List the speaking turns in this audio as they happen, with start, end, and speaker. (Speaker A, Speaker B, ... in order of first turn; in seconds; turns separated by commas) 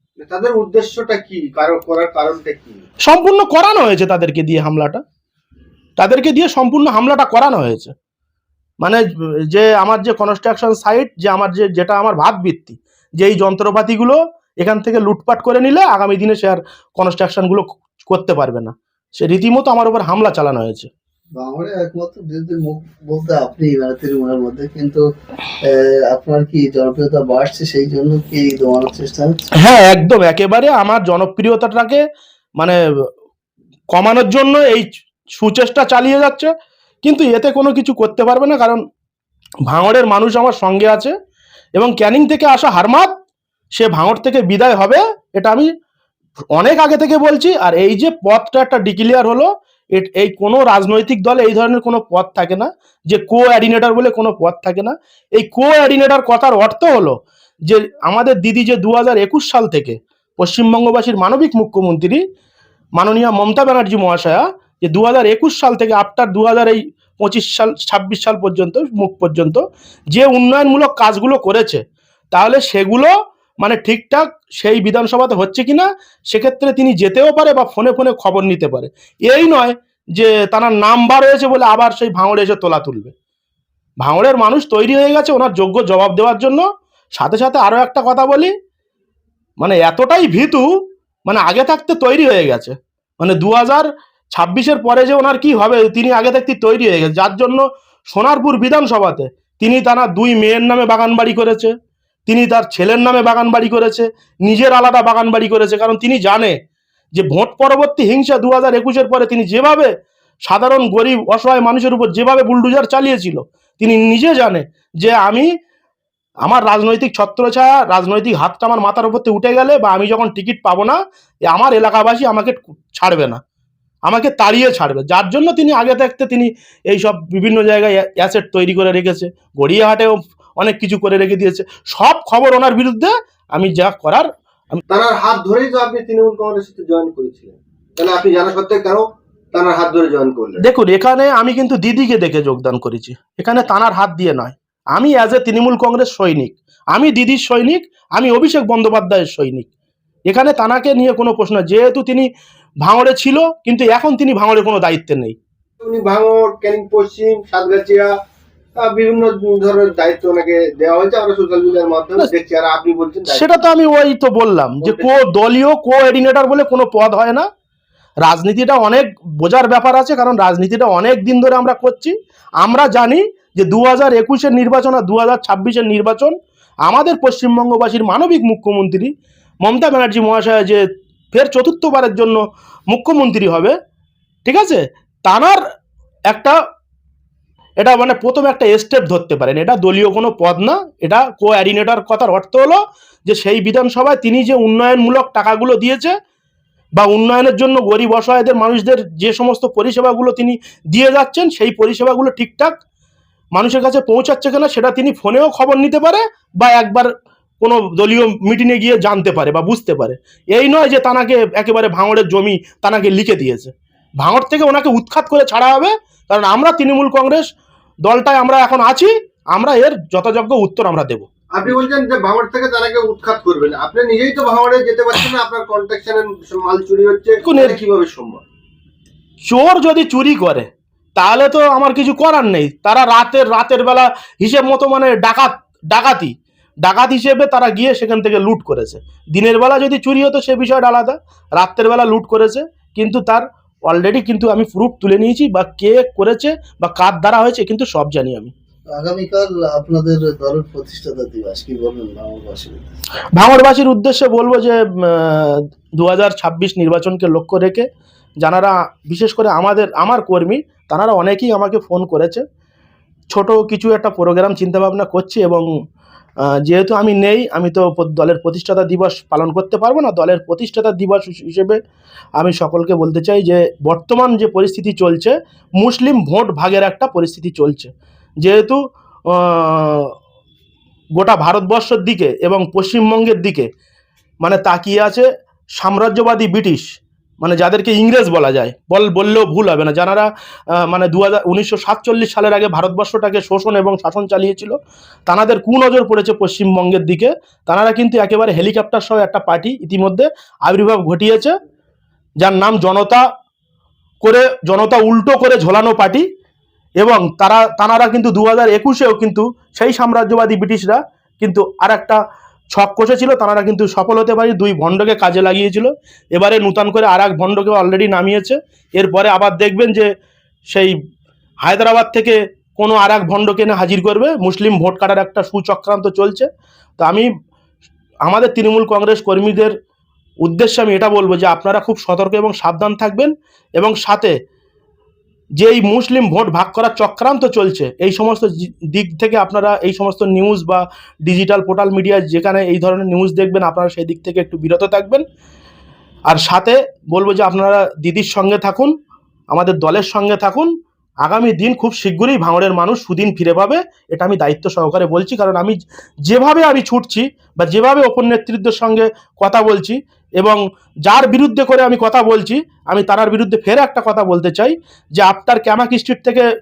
Speaker A: 0.2-2.8, Speaker B: 3.0-5.0, Speaker B: 6.0-7.9, Speaker B: 8.8-20.9, Speaker C: 21.4-25.0, Speaker C: 25.6-29.4, Speaker B: 29.6-32.0, Speaker B: 33.9-34.9, Speaker B: 35.4-36.5, Speaker B: 37.0-38.8, Speaker B: 39.7-41.1, Speaker B: 41.8-43.1, Speaker B: 43.8-45.7, Speaker B: 46.5-57.2, Speaker B: 57.7-62.2, Speaker B: 63.0-71.8, Speaker B: 72.3-83.1, Speaker B: 84.0-86.6, Speaker B: 87.2-88.5, Speaker B: 89.6-90.7, Speaker B: 91.3-101.7, Speaker B: 102.3-106.5, Speaker B: 107.1-109.9, Speaker B: 110.5-115.5, Speaker B: 116.5-123.4, Speaker B: 124.1-134.8, Speaker A: 134.9-140.6, Speaker B: 140.6-149.7, Speaker B: 150.3-152.3, Speaker B: 152.8-155.4, Speaker A: 155.8-158.1, Speaker A: 158.8-163.6, Speaker B: 163.3-167.5, Speaker A: 164.8-165.2, Speaker B: 168.2-176.3, Speaker B: 176.8-179.1, Speaker B: 179.6-183.8, Speaker B: 184.4-185.6, Speaker B: 186.3-186.6, Speaker B: 187.8-196.1, Speaker B: 197.0-202.8, Speaker B: 203.5-207.1, Speaker B: 207.6-217.4, Speaker B: 218.1-221.3, Speaker A: 221.5-228.4, Speaker B: 227.4-227.8, Speaker B: 229.4-248.5, Speaker C: 248.9-252.9, Speaker B: 253.3-257.9, Speaker B: 258.4-262.4, Speaker B: 263.3-265.7, Speaker B: 266.6-271.8, Speaker B: 272.4-280.1, Speaker B: 281.2-283.7, Speaker B: 284.4-285.3, Speaker B: 285.8-286.9, Speaker B: 287.4-294.8, Speaker B: 295.3-301.5, Speaker B: 302.4-303.2, Speaker B: 304.2-306.2, Speaker B: 307.0-312.2, Speaker B: 312.7-320.1, Speaker B: 321.6-327.3, Speaker B: 328.2-329.7, Speaker B: 330.4-334.3, Speaker B: 335.6-345.2, Speaker B: 346.3-348.9, Speaker B: 349.5-350.7, Speaker B: 351.2-366.4